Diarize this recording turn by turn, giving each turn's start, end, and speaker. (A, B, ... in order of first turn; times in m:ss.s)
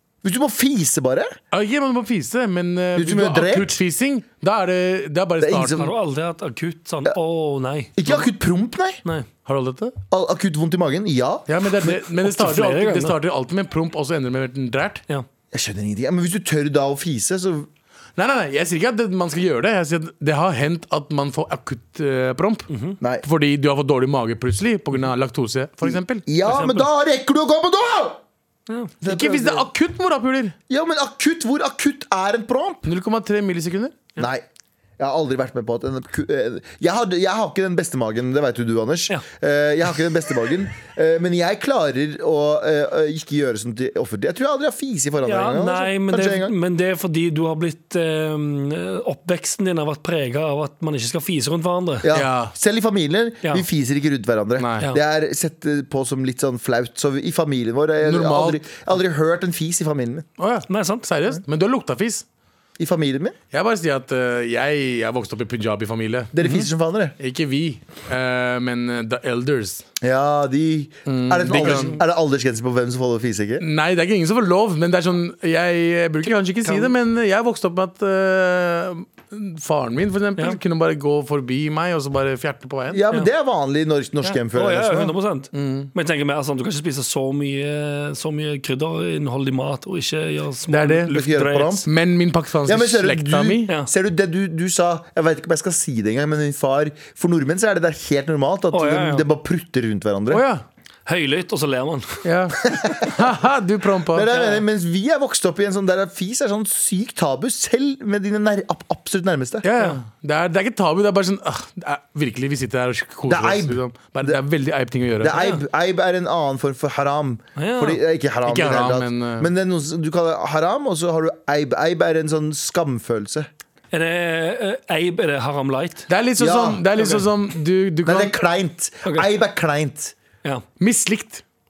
0:00.2-0:01.4 A
0:01.5-0:05.9 B
0:03.0-0:03.8 A
0:05.4-0:05.9 A
0:05.8-0:08.3 C
0:08.0-0:09.0 A
0:09.5-0:10.0 B
0:10.1-0:11.6 A
0:11.5-0:15.0 B
0:11.8-0:13.2 C
0:15.5-0:17.7 A
0:18.2-0:22.7 B
0:22.7-0:23.0 C
0:23.0-0:23.3 A
0:23.2-0:26.2 B
0:25.8-0:28.2 A
0:26.4-0:26.9 C
0:28.7-0:28.9 C
0:29.0-0:29.7 A
0:29.0-0:30.6 B
0:30.7-0:32.9 A
0:32.9-0:34.0 B
0:34.2-0:34.4 A
0:35.0-0:46.5 A
0:45.2-0:52.1 C
0:52.0-1:00.3 A
0:52.1-0:52.5 B
0:54.6-0:54.9 B
0:58.0-0:58.6 B
1:00.4-1:02.2 B
1:00.7-1:01.1 C
1:02.8-1:03.4 A
1:03.5-1:06.6 B
1:06.3-1:07.2 A
1:07.2-1:09.8 B
1:10.0-1:13.6 A
1:11.1-1:12.0 B
1:11.5-1:12.0 C
1:13.6-1:23.0 B
1:22.9-1:25.1 A
1:24.2-1:31.9 C
1:25.5-1:25.9 B
1:30.7-1:31.1 B
1:31.1-1:31.9 A
1:31.9-1:33.7 B
1:32.7-1:40.5 A
1:38.7-1:39.3 C
1:40.3-1:40.6 B
1:41.1-1:42.2 C
1:42.2-1:44.3 B
1:42.6-1:43.3 A
1:44.1-1:49.7 A
1:44.3-1:44.6 C
1:49.6-1:55.4 B
1:53.3-1:54.4 A
1:55.2-2:03.5 A
1:55.3-1:55.6 C
1:57.6-1:58.0 C
1:58.5-1:59.5 B
2:03.9-2:06.1 C
2:06.1-2:08.3 B
2:06.4-2:06.9 A
2:07.0-2:07.2 C
2:08.0-2:10.2 A
2:09.0-2:09.3 C
2:10.8-2:11.4 B